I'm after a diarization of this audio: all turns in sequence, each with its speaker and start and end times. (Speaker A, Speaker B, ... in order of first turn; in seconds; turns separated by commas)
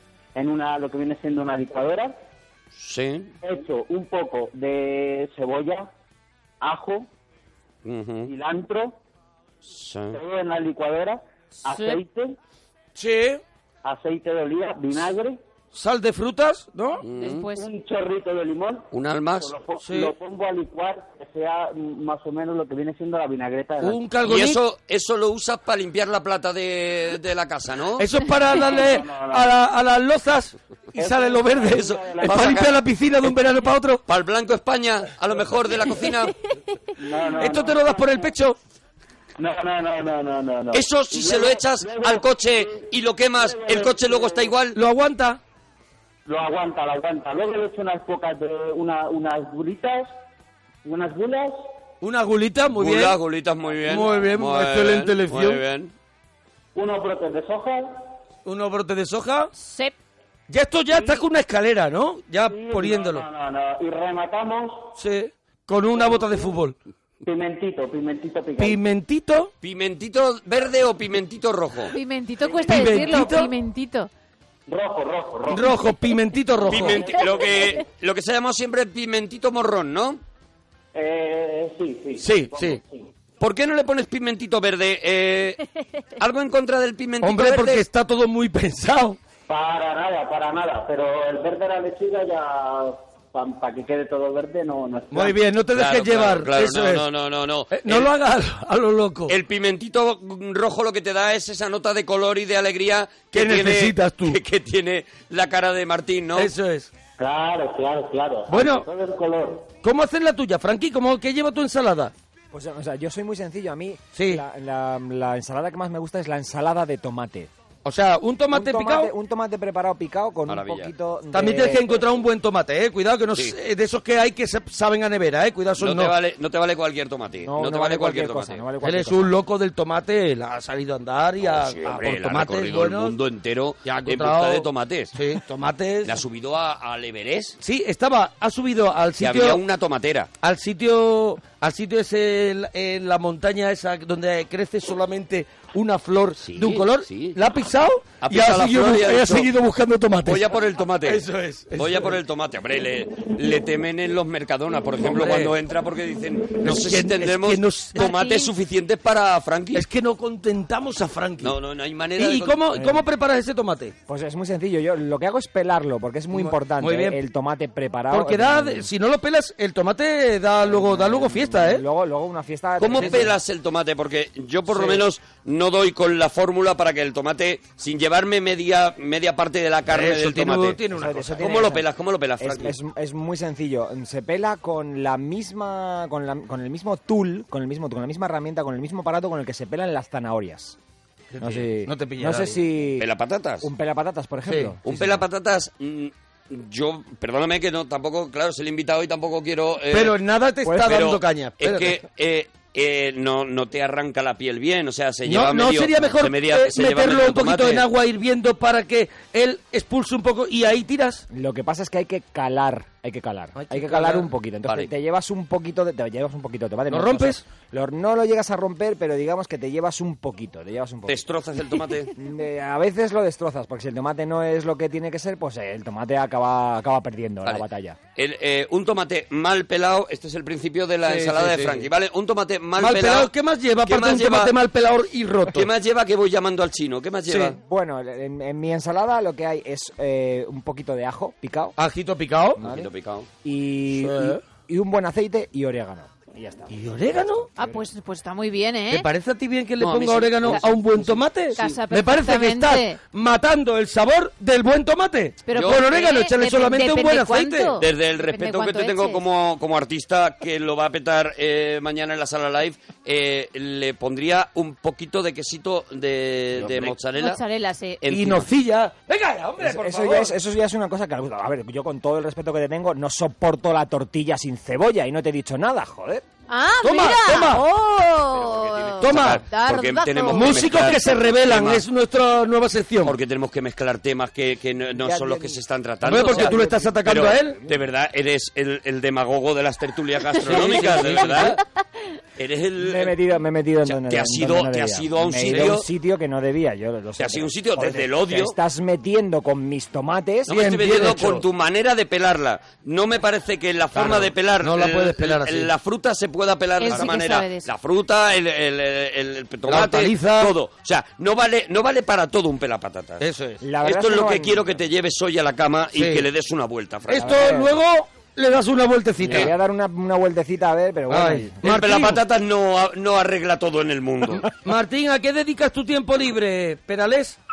Speaker A: 0.3-2.1, Speaker B: 2.7-3.3, Speaker A: 3.4-5.9, Speaker A: 6.6-7.1, Speaker B: 7.8-8.3, Speaker A: 8.2-9.0, Speaker B: 9.6-10.2, Speaker A: 10.1-12.3, Speaker C: 11.7-12.0, Speaker D: 12.9-13.4, Speaker A: 13.8-15.4, Speaker D: 15.7-17.0, Speaker B: 17.0-17.4, Speaker C: 17.1-17.7, Speaker A: 17.5-18.9, Speaker B: 18.9-19.5, Speaker A: 19.4-24.0, Speaker D: 19.8-20.1, Speaker D: 23.8-24.6, Speaker B: 24.2-28.1, Speaker D: 28.0-34.0, Speaker A: 28.7-29.6, Speaker A: 31.0-32.7, Speaker B: 31.7-32.8, Speaker B: 34.1-36.3, Speaker A: 37.0-38.3, Speaker D: 37.3-38.6, Speaker A: 39.4-44.5, Speaker B: 40.7-44.8, Speaker D: 44.7-45.4, Speaker A: 46.2-50.1, Speaker A: 50.8-51.7, Speaker D: 52.0-53.2, Speaker B: 52.8-55.9, Speaker D: 53.9-55.6, Speaker A: 56.7-58.0, Speaker D: 58.4-59.5, Speaker C: 59.5-59.9, Speaker D: 60.5-63.2, Speaker A: 60.9-61.2, Speaker A: 62.5-64.9, Speaker D: 65.0-66.7, Speaker A: 65.9-66.5, Speaker A: 67.2-68.8, Speaker D: 68.6-69.5, Speaker B: 69.6-71.9, Speaker C: 71.9-74.1, Speaker A: 72.4-72.7, Speaker D: 72.6-73.5, Speaker A: 74.7-75.9, Speaker D: 75.5-77.0, Speaker A: 76.6-77.8, Speaker B: 76.7-80.2, Speaker A: 80.9-83.1, Speaker D: 82.2-82.8, Speaker B: 83.4-85.6, Speaker B: 86.2-87.8, Speaker D: 87.2-89.2, Speaker A: 89.5-95.4, Speaker D: 95.1-97.0, Speaker B: 95.7-98.1, Speaker D: 97.7-99.3, Speaker B: 99.3-106.5, Speaker D: 103.3-104.4, Speaker D: 106.3-106.9, Speaker A: 107.2-109.7, Speaker D: 108.5-108.9, Speaker D: 109.8-112.1, Speaker E: 112.5-117.5, Speaker D: 114.2-114.4, Speaker D: 117.8-119.1, Speaker E: 118.5-122.1, Speaker B: 120.5-120.9, Speaker D: 121.3-126.1, Speaker B: 125.8-128.7, Speaker E: 127.4-129.3, Speaker D: 128.8-133.1, Speaker B: 131.4-135.1, Speaker D: 133.8-136.2, Speaker B: 136.0-137.6, Speaker D: 137.6-139.6, Speaker B: 139.2-140.3, Speaker D: 140.4-150.5, Speaker B: 146.4-147.4, Speaker B: 148.2-149.5, Speaker B: 150.2-151.2, Speaker D: 151.0-152.2, Speaker B: 151.8-159.8, Speaker D: 155.0-155.5, Speaker D: 156.6-158.3, Speaker D: 159.7-161.5, Speaker B: 161.4-162.6, Speaker D: 162.2-163.9, Speaker E: 162.7-163.0, Speaker E: 164.1-168.9, Speaker D: 166.3-167.2, Speaker D: 168.1-171.8, Speaker E: 170.6-173.3, Speaker B: 172.8-180.8, Speaker D: 172.9-173.3, Speaker D: 179.9-181.6, Speaker E: 180.9-181.8, Speaker B: 181.4-182.7, Speaker E: 182.4-190.8, Speaker D: 191.3-192.6, Speaker E: 191.4-193.1, Speaker B: 193.0-193.7, Speaker E: 193.6-195.2, Speaker D: 194.5-194.7, Speaker B: 194.8-200.1, Speaker D: 199.9-202.0, Speaker E: 200.6-200.9, Speaker B: 200.8-207.8, Speaker D: 205.2-211.2, Speaker E: 211.3-221.2, Speaker D: 213.6-214.3, Speaker D: 216.9-217.4, Speaker B: 221.1-222.1, Speaker E: 222.2-228.0, Speaker B: 228.2-233.3, Speaker D: 231.1-231.9, Speaker D: 232.8-235.6, Speaker B: 233.8-234.5, Speaker B: 235.5-237.6, Speaker D: 237.3-237.5, Speaker E: 237.6-241.7, Speaker D: 241.8-242.6, Speaker E: 242.6-242.9, Speaker B: 242.6-243.3, Speaker E: 243.4-247.8, Speaker D: 243.9-244.4, Speaker D: 246.7-247.4, Speaker C: 247.6-249.1, Speaker D: 248.9-257.7, Speaker B: 249.8-251.0, Speaker C: 251.5-253.0, Speaker C: 255.5-259.2, Speaker B: 255.5-255.8, Speaker B: 257.8-267.4, Speaker C: 267.1-268.0, Speaker B: 268.0-268.5, Speaker D: 268.1-270.3, Speaker E: 269.6-276.2, Speaker C: 276.5-280.9, Speaker D: 276.8-277.6, Speaker B: 278.3-281.8, Speaker D: 279.0-279.4, Speaker D: 280.3-283.1, Speaker B: 283.0-291.6, Speaker E: 285.0-285.6, Speaker D: 286.0-287.6, Speaker E: 286.1-287.8, Speaker D: 290.4-291.6, Speaker B: 292.4-293.2, Speaker E: 292.8-301.0, Speaker B: 293.8-295.8, Speaker B: 297.2-298.6, Speaker B: 300.5-313.2, Speaker D: 300.5-301.4, Speaker D: 303.9-305.7, Speaker C: 306.8-307.7, Speaker D: 309.7-310.5, Speaker D: 313.2-313.6, Speaker E: 313.6-314.8, Speaker B: 313.8-317.6, Speaker D: 315.9-316.2, Speaker D: 317.1-319.5, Speaker E: 317.1-317.8, Speaker E: 319.2-321.5, Speaker D: 321.1-322.2, Speaker B: 321.6-324.4, Speaker D: 324.6-327.4